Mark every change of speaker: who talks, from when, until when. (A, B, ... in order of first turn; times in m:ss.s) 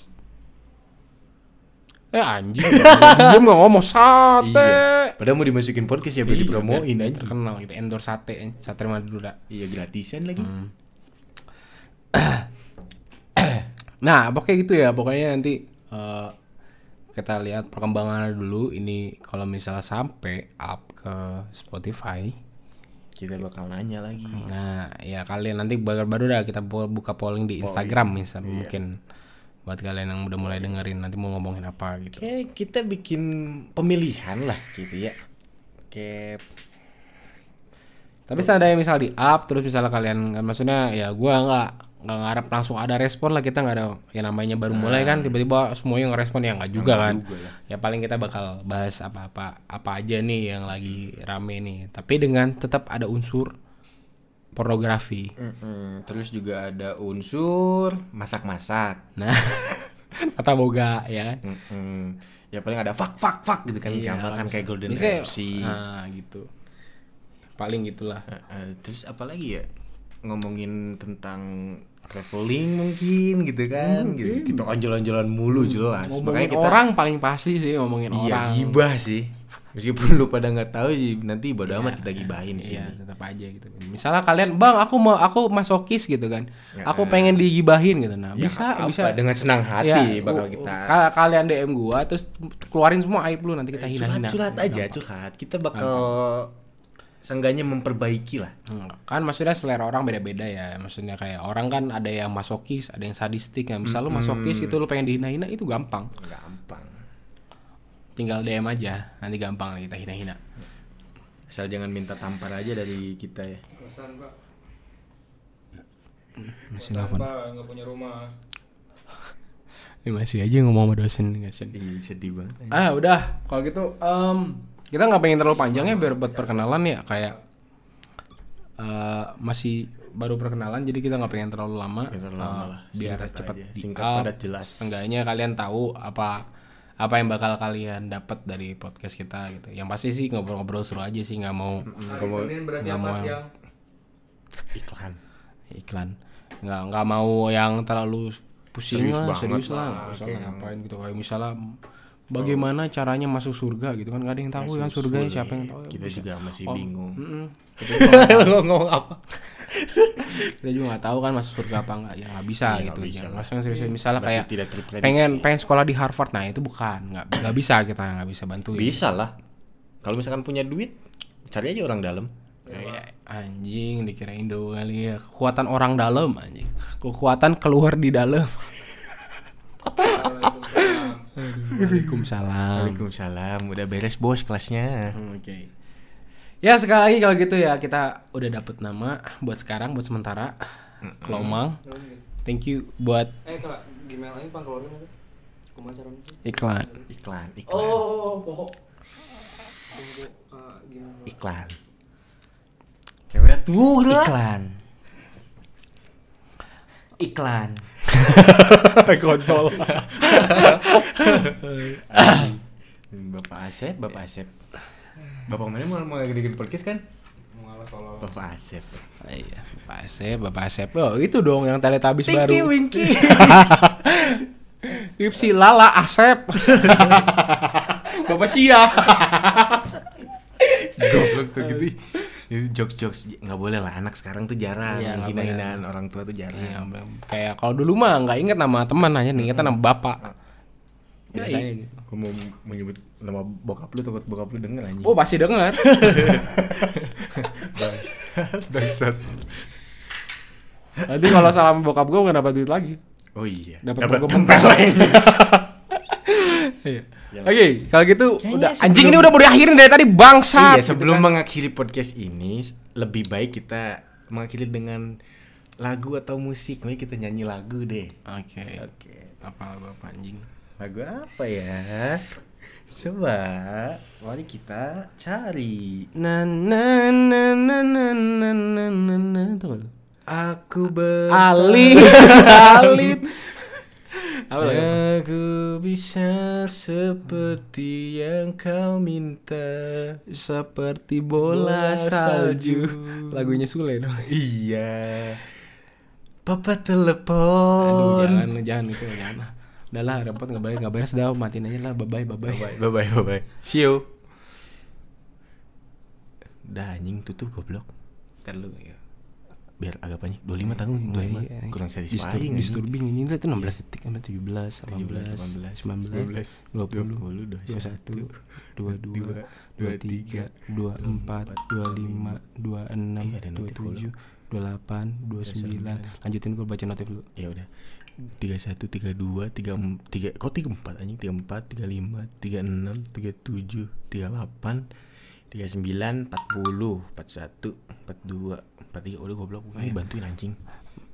0:02.1-0:05.2 A
0:02.6-0:03.5 B
0:04.4-0:07.4 B
0:06.2-0:09.4 A
0:09.5-0:10.5 B
0:10.4-0:10.7 A
0:12.1-0:12.5 A
0:13.4-0:16.3 A
0:17.2-0:22.4 A
0:23.2-0:24.5 B
0:24.4-0:29.0 A
0:27.6-0:28.8 B
0:29.7-0:32.3 A
0:32.2-0:35.2 B
0:35.9-0:36.4 B
0:38.3-0:53.5 A
0:44.7-0:45.4 B
0:46.8-0:47.6 B
0:54.6-0:55.3 A
0:55.4-0:59.0 B
0:59.2-1:01.4 A
1:01.4-1:05.8 B
1:03.8-1:06.5 A
1:07.6-1:08.3 A
1:08.3-1:09.7 B
1:10.2-1:16.8 B
1:13.8-1:14.7 A
1:15.5-1:18.8 A
1:18.1-1:23.0 B
1:21.7-1:29.2 A
1:26.8-1:27.5 B
1:28.4-1:31.0 B
1:29.8-1:35.0 A
1:33.8-1:36.5 B
1:35.7-1:36.2 A
1:37.2-1:38.5 B
1:38.7-1:46.1 A
1:43.8-1:44.8 B
1:46.2-1:47.0 B
1:48.2-1:50.4 A
1:51.5-1:53.6 B
1:53.8-1:54.4 C
1:56.4-1:57.3 A
1:56.8-1:58.3 C
2:00.0-2:01.8 A
2:01.7-2:02.8 B
2:02.7-2:07.4 A
2:05.5-2:07.4 C
2:08.8-2:14.3 A
2:12.1-2:15.0 B
2:14.8-2:16.4 A
2:17.0-2:21.9 A
2:21.8-2:22.6 B
2:22.1-2:23.5 C
2:22.8-2:23.4 A
2:24.7-2:25.2 B
2:25.7-2:31.6 A
2:28.9-2:30.7 B
2:32.3-2:38.6 A
2:32.4-2:32.7 B
2:34.6-2:37.2 B
2:37.8-2:40.5 B
2:40.3-2:44.5 A
2:42.6-2:45.5 B
2:45.0-2:49.0 A
2:48.7-2:49.3 B
2:50.0-2:50.9 B
2:51.5-2:52.3 B
2:52.7-2:53.1 C
2:52.7-2:58.7 A
3:00.0-3:03.0 A
3:00.0-3:01.3 C
3:01.4-3:05.2 B
3:05.2-3:05.7 A
3:06.6-3:10.6 A
3:11.0-3:11.6 B
3:11.2-3:11.8 A
3:11.8-3:12.2 C
3:12.4-3:13.4 A
3:13.4-3:15.1 C
3:15.8-3:17.1 C
3:16.4-3:16.9 A
3:17.1-3:18.1 B
3:17.7-3:18.8 C
3:19.9-3:21.4 C
3:21.3-3:21.8 B
3:23.3-3:24.4 B
3:24.2-3:24.7 C
3:27.2-3:27.8 C
3:28.1-3:32.6 A
3:28.3-3:32.6 B
3:33.1-3:34.5 B
3:35.5-3:37.0 B
3:37.5-3:38.4 C
3:38.2-3:39.0 B
3:39.2-3:50.0 A
3:42.3-3:44.0 B
3:46.6-3:47.4 B
3:50.6-3:51.9 A
3:51.0-3:56.8 B
3:54.9-3:55.8 A
3:56.5-4:00.2 A
3:59.4-4:00.3 B
4:01.3-4:05.2 B
4:01.3-4:02.0 A
4:05.0-4:06.4 A
4:05.8-4:09.7 B
4:11.0-4:13.0 A
4:11.2-4:11.5 B
4:13.4-4:15.4 B
4:13.8-4:21.3 A
4:17.3-4:17.6 B
4:18.4-4:19.4 B
4:20.5-4:25.1 B
4:25.8-4:28.2 B
4:28.3-4:28.9 A
4:28.8-4:29.4 B
4:29.4-4:30.5 A
4:30.8-4:36.1 B
4:36.2-4:39.9 A
4:40.3-4:43.2 B
4:41.3-4:45.0 A
4:44.5-4:50.2 B
4:50.3-4:54.3 A
4:51.4-4:53.6 B
4:54.2-4:55.5 B
4:56.4-4:58.5 B
4:57.8-5:02.8 A
5:02.5-5:04.1 B
5:06.6-5:07.9 B
5:08.4-5:09.0 A
5:09.8-5:12.8 B
5:11.0-5:27.3 A
5:14.9-5:22.4 B
5:23.2-5:24.1 B
5:25.5-5:26.1 B
5:27.4-5:27.7 B
5:28.2-5:34.9 B
5:35.5-5:40.6 B